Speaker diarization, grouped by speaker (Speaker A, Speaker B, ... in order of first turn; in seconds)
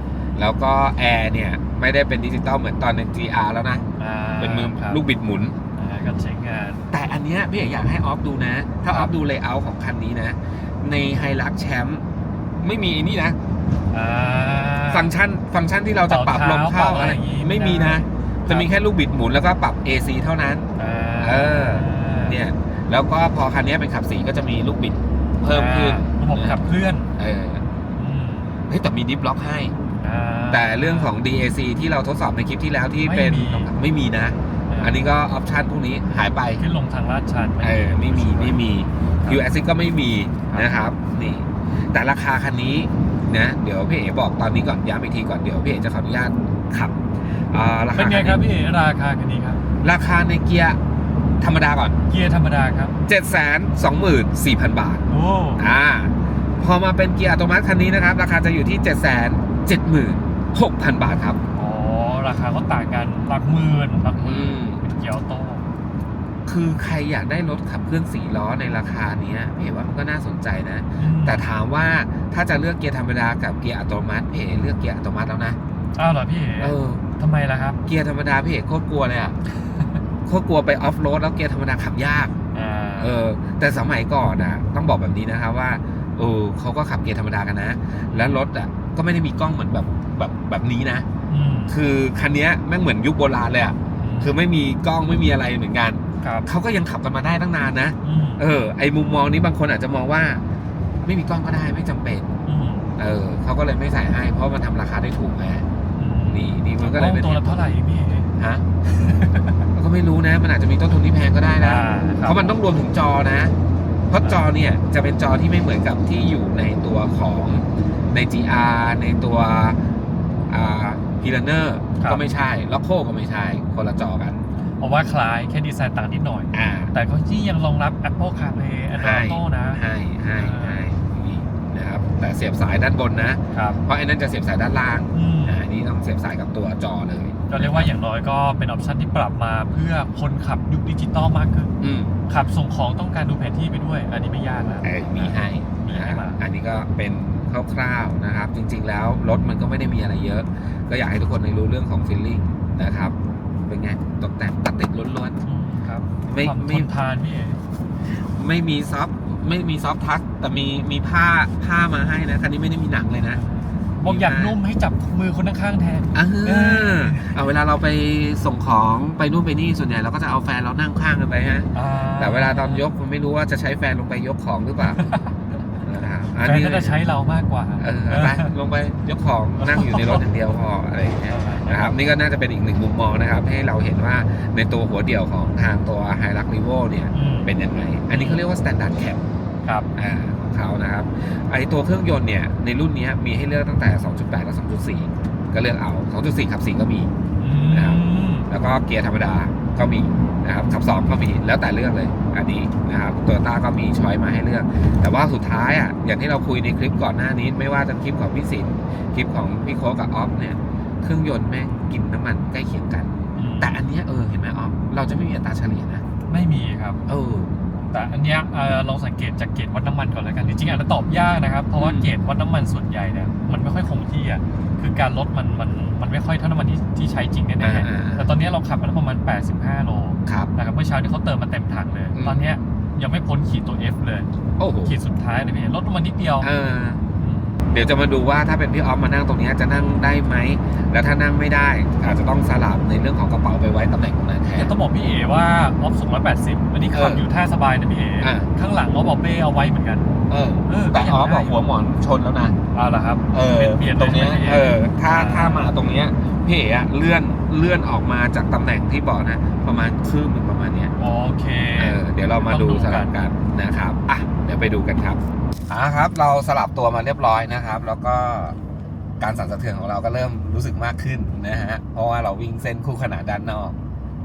Speaker A: 0.4-3.9, 4.4-5.6, 6.9-12.0, 12.6-13.4, 14.9-20.7, 21.2-26.6, 27.2-27.6, 28.7-29.8, 30.5-36.6, 37.6-47.0, 47.5-48.4, 49.8-50.8, 51.4-52.0, 53.1-55.0, 55.6-61.4, 64.2-64.8, 66.5-75.6, 76.6-77.0, 77.9-79.4, 80.3-82.3, 83.0-91.1, 91.7-100.4, 101.0-102.3, 103.0-105.7, 106.3-107.6, 108.4-108.6, 109.7-113.5, 114.1-119.8, 120.5-124.4, 126.5-126.9, 129.0-137.9, 141.8-142.2, 144.8-153.2, 153.7-155.4, 156.3-156.9, 158.1-163.4, 164.0-164.6, 166.1-175.0, 175.8-177.0, 177.8-189.3, 189.9-197.1, 197.7-216.0, 217.1-217.5, 221.8-222.1, 227.6-228.3, 232.2-232.4, 234.6-234.9, 236.4-237.0, 237.7-244.7, 246.9-247.2, 248.2-248.5, 250.3-252.6, 253.3-260.9, 261.8-268.6, 269.2-273.8
Speaker B: 4.0-5.0, 5.8-6.8, 13.9-15.1, 16.1-18.7, 20.8-22.4, 25.5-27.1, 28.0-28.6, 30.0-31.1, 33.0-33.7, 34.7-35.0, 36.6-38.6, 47.9-49.6, 52.1-53.0, 55.1-55.7, 61.5-65.7, 71.0-71.5, 76.0-77.8, 79.5-80.0, 82.5-83.2, 88.1-88.4, 91.3-91.8, 94.0-94.4, 96.2-96.5, 98.0-98.4, 102.5-102.9, 106.0-108.3, 108.8-109.7, 111.6-112.5, 124.8-130.8, 133.5-133.8, 135.1-135.6, 137.5-141.7, 142.3-146.4, 155.4-157.6, 163.3-167.4, 171.7-172.8, 174.8-175.6, 176.4-178.5, 179.6-180.2, 181.3-181.9, 187.1-187.5, 188.1-188.4, 197.4-198.5, 213.4-213.7, 216.3-217.0, 217.9-234.3, 234.8-236.5, 237.2-237.6, 244.6-251.6, 252.7-255.7, 261.0-263.1